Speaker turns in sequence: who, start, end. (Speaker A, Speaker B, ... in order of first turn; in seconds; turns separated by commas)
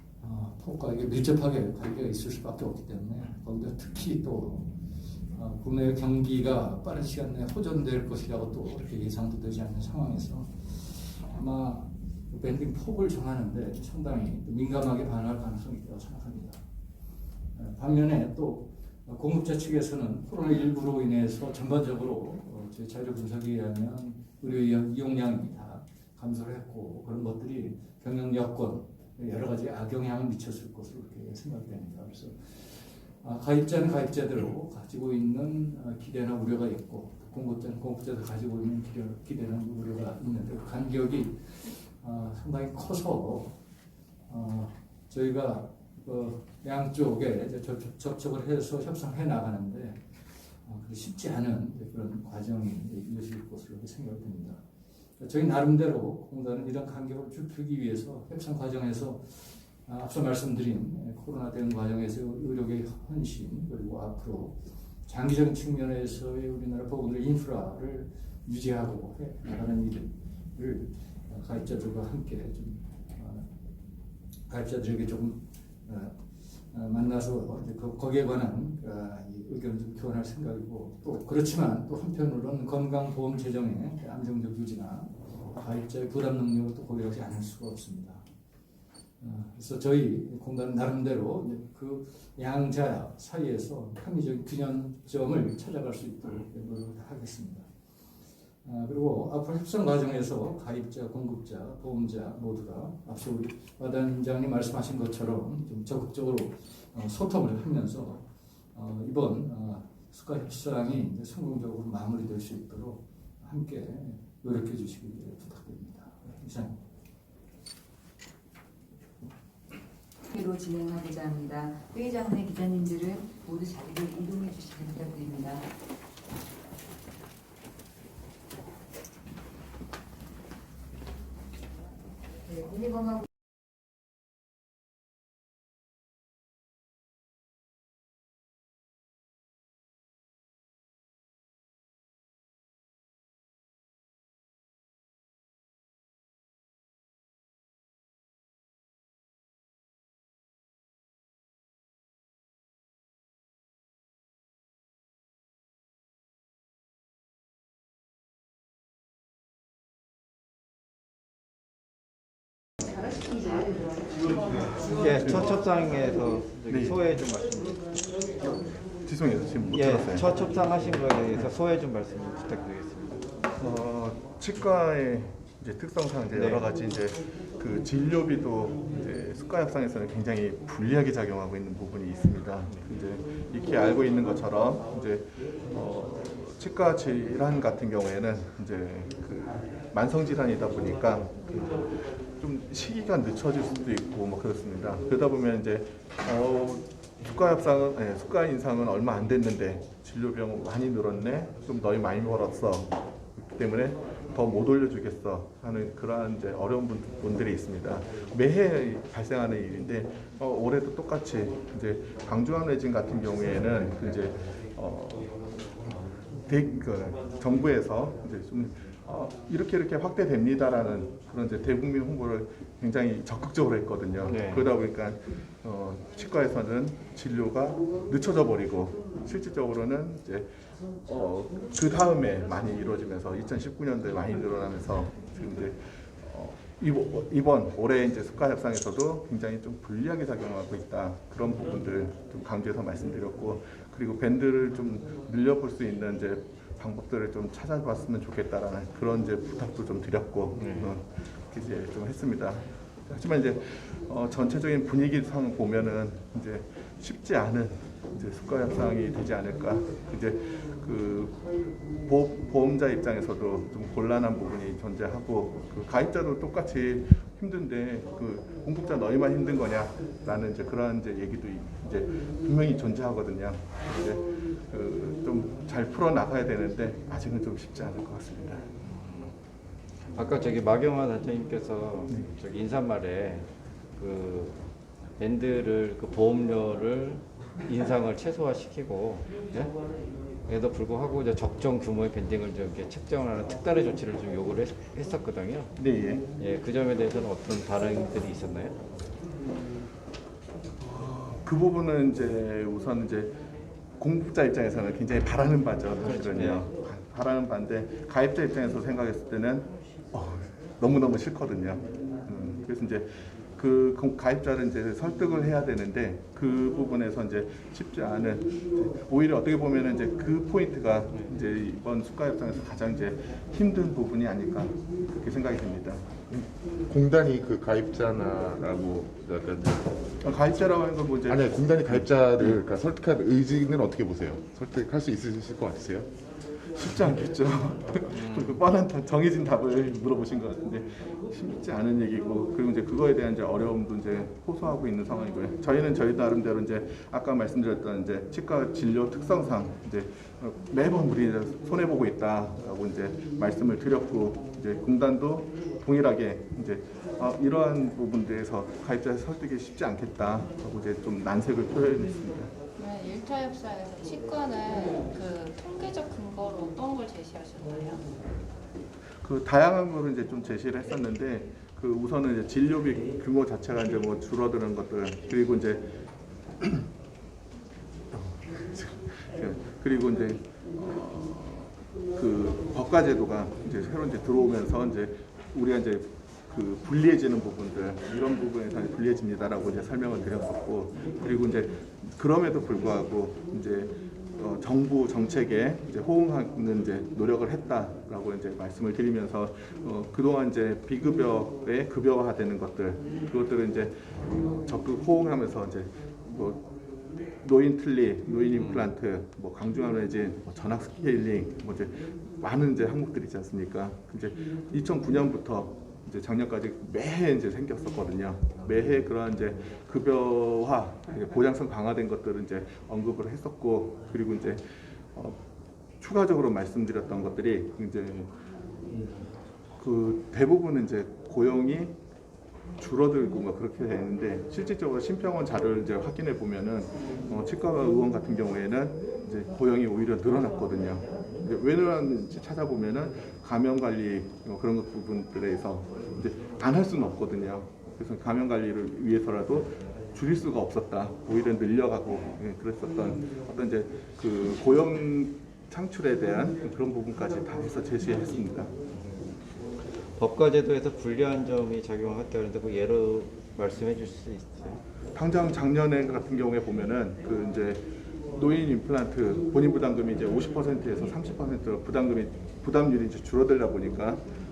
Speaker A: 0.2-4.7, Speaker A: 5.3-16.6, Speaker A: 17.5-32.5, Speaker A: 33.2-43.5, Speaker A: 44.3-50.0, Speaker A: 50.6-54.6, Speaker A: 55.2-73.5, Speaker A: 74.5-76.2, Speaker A: 76.7-88.2, Speaker A: 89.2-97.7, Speaker A: 98.6-116.8, Speaker B: 120.3-125.7, Speaker B: 132.6-133.2, Speaker C: 164.8-167.8, Speaker D: 165.2-165.5, Speaker D: 166.7-167.0, Speaker D: 169.0-170.3, Speaker C: 169.7-173.2, Speaker D: 173.6-230.5, Speaker C: 176.3-176.6, Speaker C: 224.2-224.7, Speaker D: 231.0-261.4, Speaker C: 250.5-250.9, Speaker D: 262.0-278.6, Speaker C: 278.8-279.3, Speaker C: 280.1-284.6, Speaker C: 285.2-289.7, Speaker C: 290.5-295.7, Speaker D: 295.8-296.2, Speaker C: 296.4-298.8, Speaker D: 300.8-303.3, Speaker D: 304.0-326.2, Speaker C: 306.0-306.6, Speaker E: 326.9-329.9, Speaker D: 330.2-332.6, Speaker E: 331.3-336.1, Speaker D: 336.7-362.5, Speaker C: 338.1-338.6, Speaker F: 362.8-368.0, Speaker D: 369.2-375.9, Speaker D: 378.1-406.7, Speaker D: 407.4-425.4, Speaker C: 408.5-408.9, Speaker D: 426.0-428.3, Speaker D: 429.8-431.9, Speaker D: 432.8-458.7, Speaker C: 460.1-464.8, Speaker D: 465.1-474.2